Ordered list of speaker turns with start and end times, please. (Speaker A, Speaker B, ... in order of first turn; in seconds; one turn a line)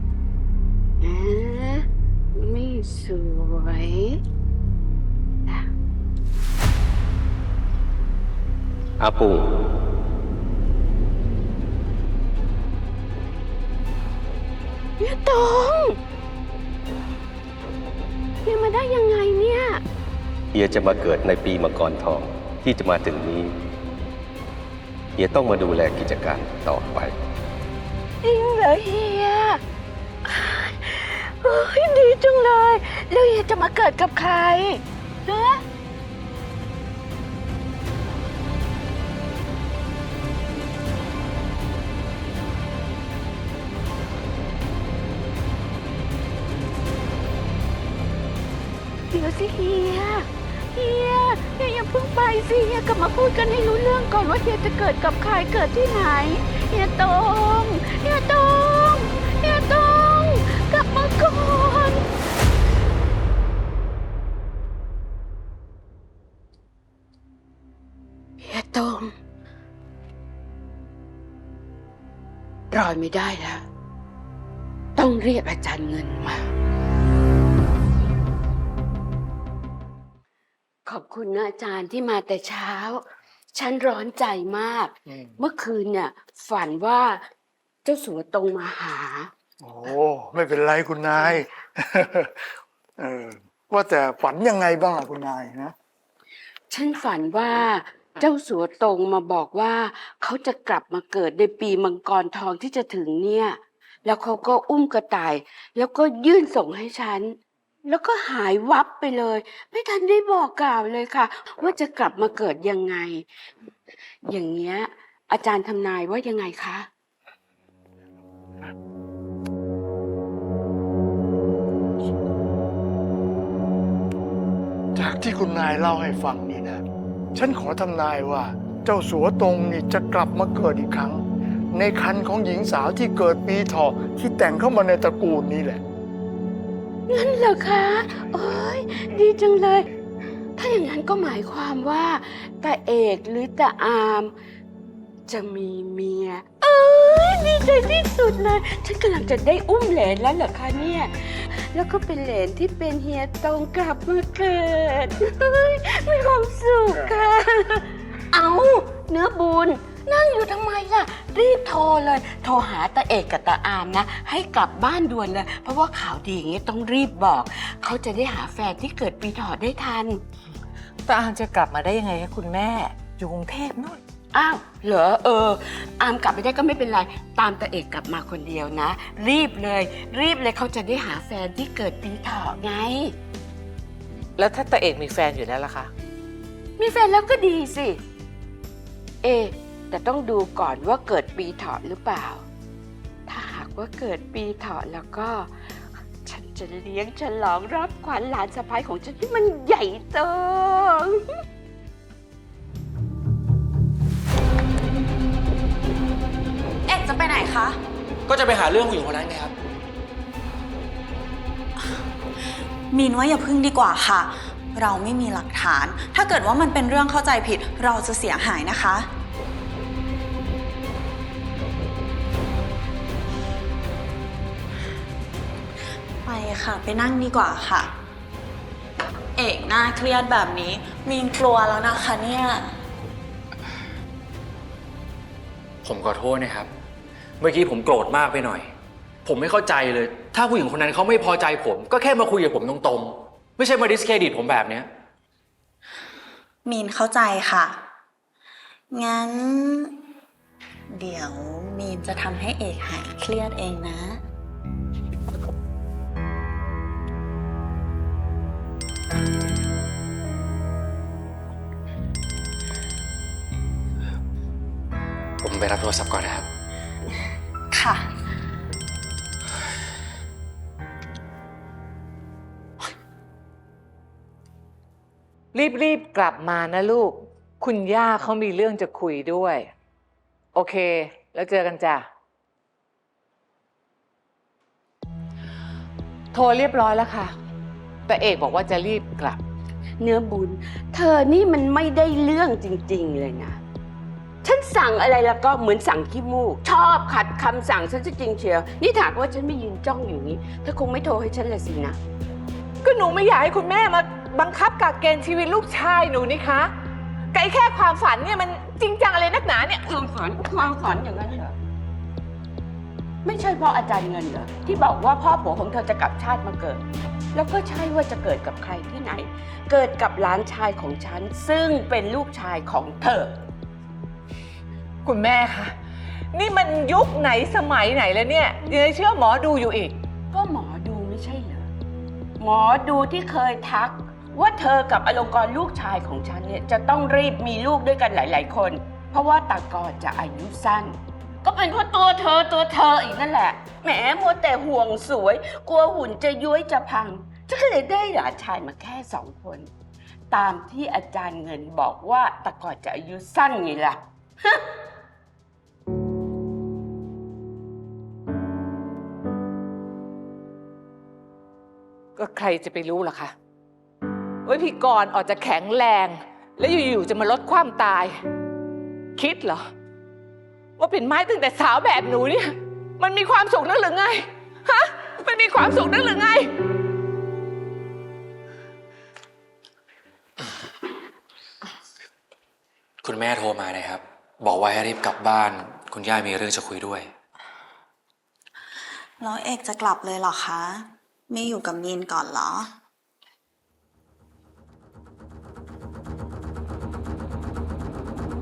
Speaker A: 1.0-4.2
Speaker B: 9.0-9.5
Speaker A: 15.0-16.0
Speaker A: 18.4-19.8
Speaker B: 20.5-23.6
Speaker B: 25.2-27.2
Speaker A: 28.2-29.6
Speaker A: 30.2-35.6
Speaker A: 49.1-62.0
Speaker A: 68.4-69.1
Speaker A: 72.7-73.6
Speaker A: 75.0-76.4
Speaker A: 80.9-87.2
Speaker A: 87.8-89.3
Speaker C: 89.6-92.3
Speaker C: 93.0-95.8
Speaker A: 96.7-113.3
Speaker A: 114.2-116.9
Speaker C: 125.0-126.8
Speaker C: 127.3-135.8
Speaker A: 137.1-139.9
Speaker A: 140.6-144.3
Speaker A: 145.3-170.2
Speaker D: 171.1-174.0
Speaker A: 174.3-183.2
Speaker D: 184.4-185.9
Speaker A: 186.8-188.0
Speaker A: 189.2-192.4
Speaker A: 193.3-195.5
Speaker A: 196.2-201.2
Speaker E: 206.9-207.8
Speaker F: 208.3-209.5
Speaker E: 212.9-219.1
Speaker E: 226.2-227.9
Speaker E: 229.4-232.7
Speaker F: 235.8-236.7
Speaker F: 237.4-238.7
Speaker F: 239.2-244.9
Speaker E: 246.7-247.8
Speaker E: 248.9-250.0
Speaker E: 250.9-254.2
Speaker F: 265.4-266.5
Speaker E: 267.7-268.0
Speaker D: 275.5-279.7
Speaker D: 280.6-282.1
Speaker D: 286.3-287.3
Speaker D: 288.1-289.4
Speaker A: 290.0-293.6
Speaker A: 294.4-302.0
Speaker D: 302.8-306.7
Speaker D: 307.3-309.9
Speaker A: 309.9-311.6
Speaker A: 313.2-316.8
Speaker A: 317.3-323.4
Speaker D: 325.1-325.7
Speaker D: 326.3-330.0
Speaker A: 330.3-331.7
Speaker A: 332.4-349.7
Speaker A: 350.3-354.6
Speaker D: 362.2-363.3
Speaker D: 364.4-368.1
Speaker D: 369.2-369.6
Speaker D: 370.8-376.5
Speaker F: 383.0-387.1
Speaker E: 389.2-392.7